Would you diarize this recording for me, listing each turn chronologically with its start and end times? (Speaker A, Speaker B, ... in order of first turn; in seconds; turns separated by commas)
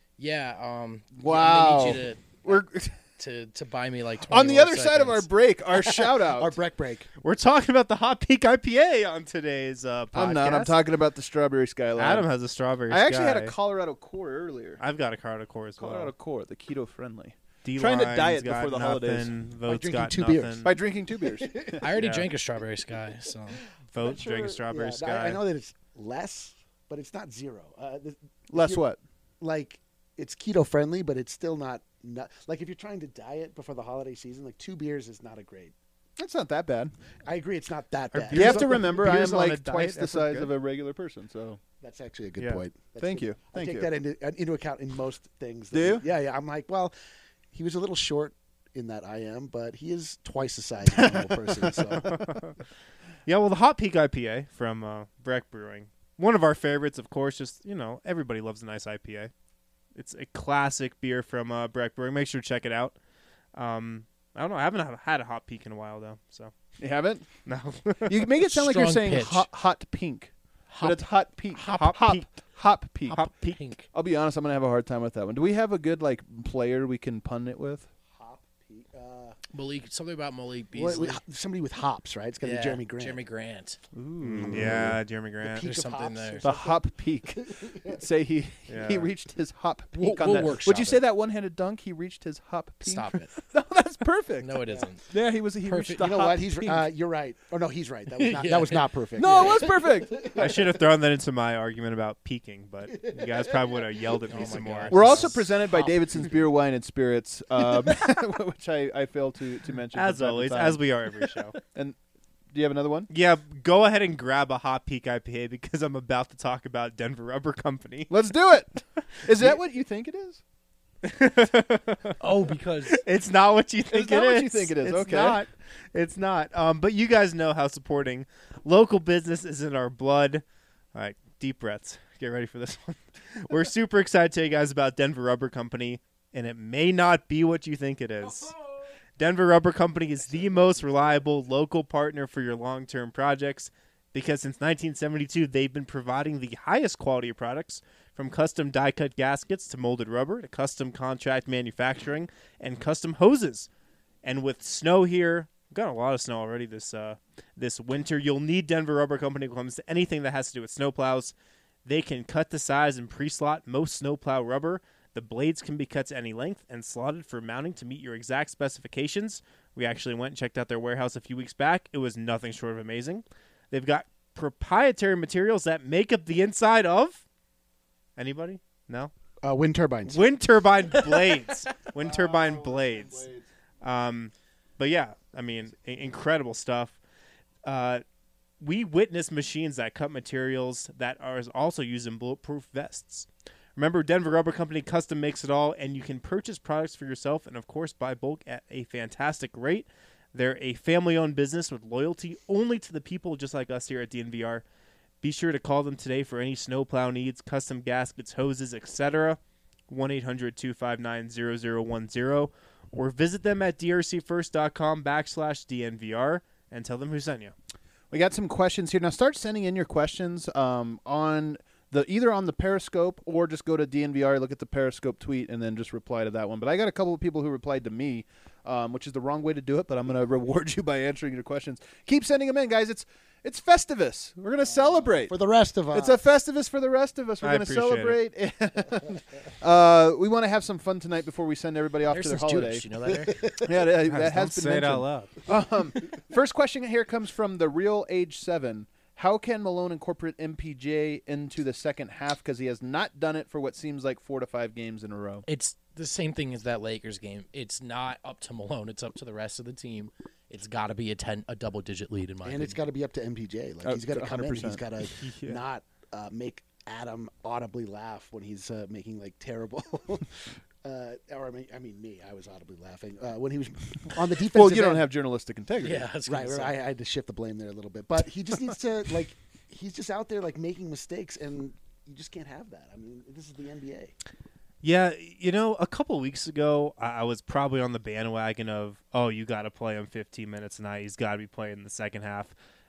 Speaker A: 0.2-2.6, Speaker B: 1.2-3.0, Speaker A: 3.2-5.3, Speaker B: 4.3-6.5, Speaker C: 5.8-7.1, Speaker D: 7.2-10.8, Speaker B: 10.1-12.3, Speaker D: 12.0-13.5, Speaker B: 12.9-14.8, Speaker D: 14.8-16.1, Speaker B: 15.8-19.3, Speaker D: 17.6-20.7, Speaker C: 19.7-20.6, Speaker B: 20.6-21.8, Speaker C: 21.4-21.8, Speaker A: 21.8-23.6, Speaker D: 21.9-22.3, Speaker D: 23.9-25.4, Speaker C: 24.0-28.8, Speaker B: 28.5-29.0, Speaker C: 29.4-35.7, Speaker B: 36.2-36.9, Speaker C: 37.2-38.9, Speaker D: 38.1-40.5, Speaker B: 38.3-41.6, Speaker C: 41.8-46.9, Speaker D: 42.4-42.6, Speaker B: 43.0-43.9, Speaker B: 45.7-46.0, Speaker C: 47.5-52.2, Speaker B: 50.9-51.8, Speaker D: 51.9-52.5, Speaker D: 53.2-59.3, Speaker D: 59.9-63.0, Speaker D: 63.5-66.5, Speaker B: 66.8-67.3, Speaker D: 67.5-68.2, Speaker B: 68.0-73.2, Speaker A: 68.5-69.5, Speaker A: 70.7-71.0, Speaker D: 71.5-72.3, Speaker D: 73.1-73.6, Speaker A: 73.2-73.9, Speaker B: 73.9-77.9, Speaker C: 78.1-79.4, Speaker A: 79.5-81.2, Speaker C: 80.7-83.2, Speaker A: 82.4-83.8, Speaker B: 83.9-85.0, Speaker D: 84.2-85.7, Speaker C: 84.4-88.0, Speaker A: 85.5-86.4, Speaker B: 86.4-96.8, Speaker D: 88.7-89.1, Speaker A: 89.9-91.0, Speaker A: 92.8-93.3, Speaker A: 94.4-95.1, Speaker A: 95.6-96.2, Speaker C: 96.0-100.8, Speaker A: 98.1-99.7, Speaker B: 99.2-100.4, Speaker D: 100.3-105.3, Speaker C: 102.9-104.0, Speaker A: 104.3-105.9, Speaker B: 104.9-112.0, Speaker D: 109.9-111.6, Speaker B: 112.5-113.1, Speaker D: 113.1-118.1, Speaker B: 118.1-120.4, Speaker D: 119.2-119.5, Speaker D: 121.0-122.2, Speaker A: 122.2-123.0, Speaker D: 122.8-130.4, Speaker B: 123.9-125.4, Speaker D: 130.9-138.5, Speaker D: 139.2-153.7, Speaker D: 154.2-161.3, Speaker D: 161.8-177.2, Speaker D: 178.2-179.1, Speaker C: 179.4-180.2, Speaker D: 180.1-183.3, Speaker A: 181.1-181.5, Speaker B: 181.9-183.4, Speaker D: 183.8-187.0, Speaker D: 187.6-188.0, Speaker D: 188.6-204.6, Speaker D: 205.2-217.5, Speaker B: 218.1-235.3, Speaker C: 235.3-236.2, Speaker B: 235.9-255.4, Speaker D: 237.4-238.2, Speaker A: 242.1-243.5, Speaker C: 243.3-243.6, Speaker D: 244.0-245.3, Speaker A: 255.5-262.8, Speaker C: 262.4-275.1, Speaker B: 263.8-264.8, Speaker D: 265.1-265.6, Speaker B: 274.4-276.1, Speaker A: 275.8-276.8, Speaker C: 276.2-284.1, Speaker D: 284.8-292.5